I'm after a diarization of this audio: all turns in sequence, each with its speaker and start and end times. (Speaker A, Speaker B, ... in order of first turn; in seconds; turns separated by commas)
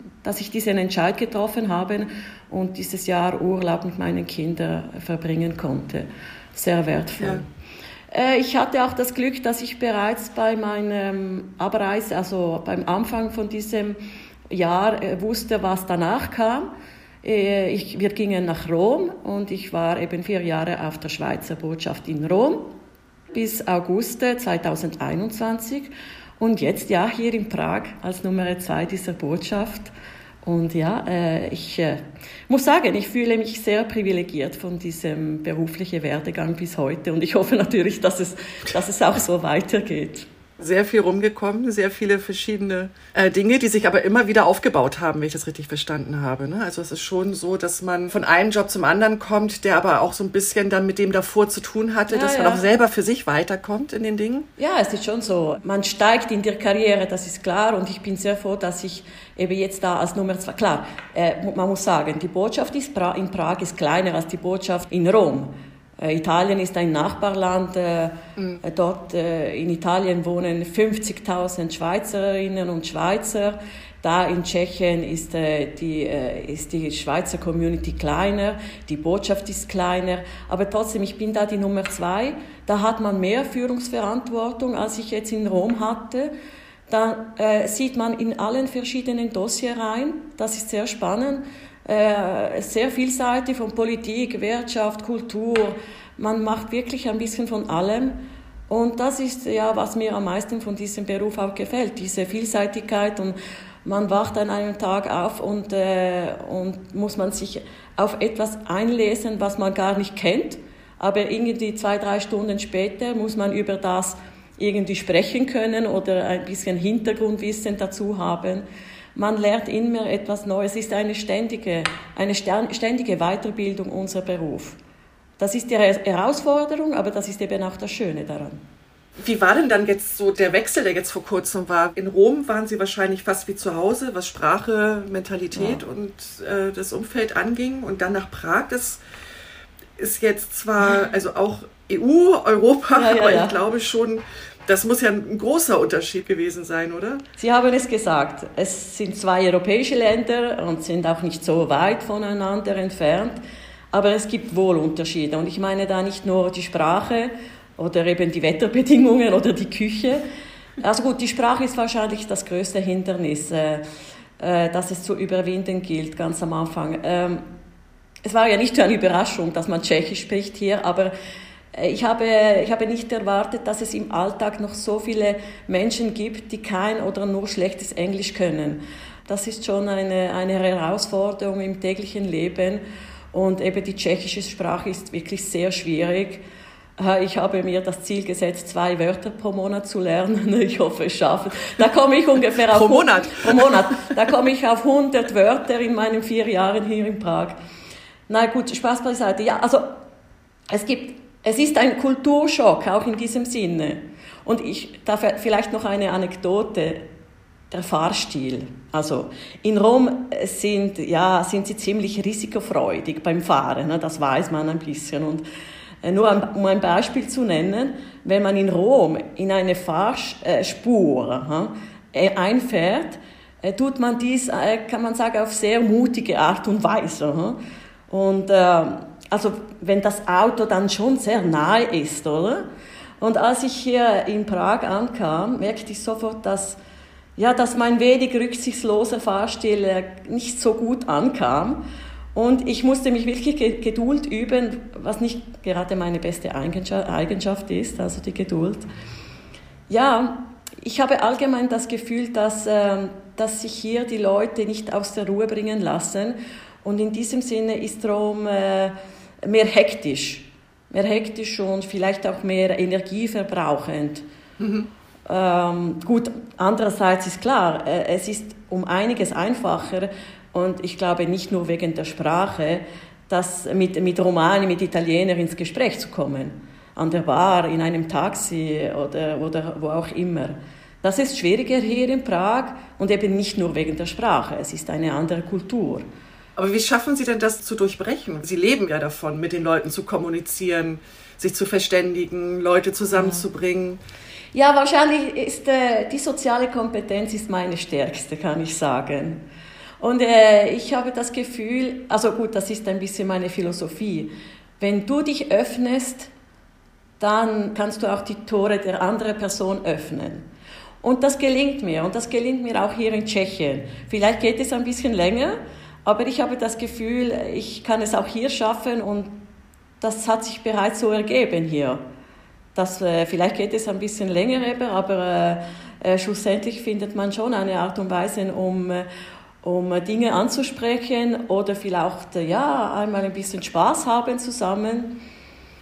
Speaker A: 0.2-7.4, Speaker A: 8.1-14.0, Speaker A: 14.5-16.7, Speaker A: 17.2-22.7, Speaker A: 23.3-29.9, Speaker A: 30.4-40.3, Speaker B: 40.6-54.5, Speaker A: 52.1-52.6, Speaker A: 54.6-86.3, Speaker A: 86.9-124.8, Speaker A: 125.4-128.6, Speaker B: 129.2-139.0, Speaker A: 135.5-135.8, Speaker B: 140.0-147.2, Speaker A: 142.9-143.6, Speaker A: 147.4-153.4, Speaker A: 153.9-160.2, Speaker A: 160.8-163.8, Speaker A: 164.4-167.4, Speaker A: 168.2-171.1, Speaker A: 171.7-182.8, Speaker A: 183.3-186.4, Speaker A: 187.0-197.6, Speaker B: 192.7-193.9, Speaker A: 198.3-199.9, Speaker A: 200.7-207.1, Speaker A: 207.7-215.4, Speaker A: 216.0-227.6, Speaker A: 228.1-232.7, Speaker A: 233.2-236.8, Speaker A: 237.4-248.9, Speaker A: 249.9-258.9, Speaker A: 259.4-264.2, Speaker B: 264.6-264.9, Speaker A: 265.3-286.0, Speaker B: 286.6-294.0, Speaker A: 293.1-293.4, Speaker A: 294.5-299.4, Speaker A: 300.0-306.3, Speaker A: 307.2-310.4, Speaker A: 311.0-319.4, Speaker A: 320.0-322.0, Speaker A: 322.7-329.1, Speaker A: 329.6-335.2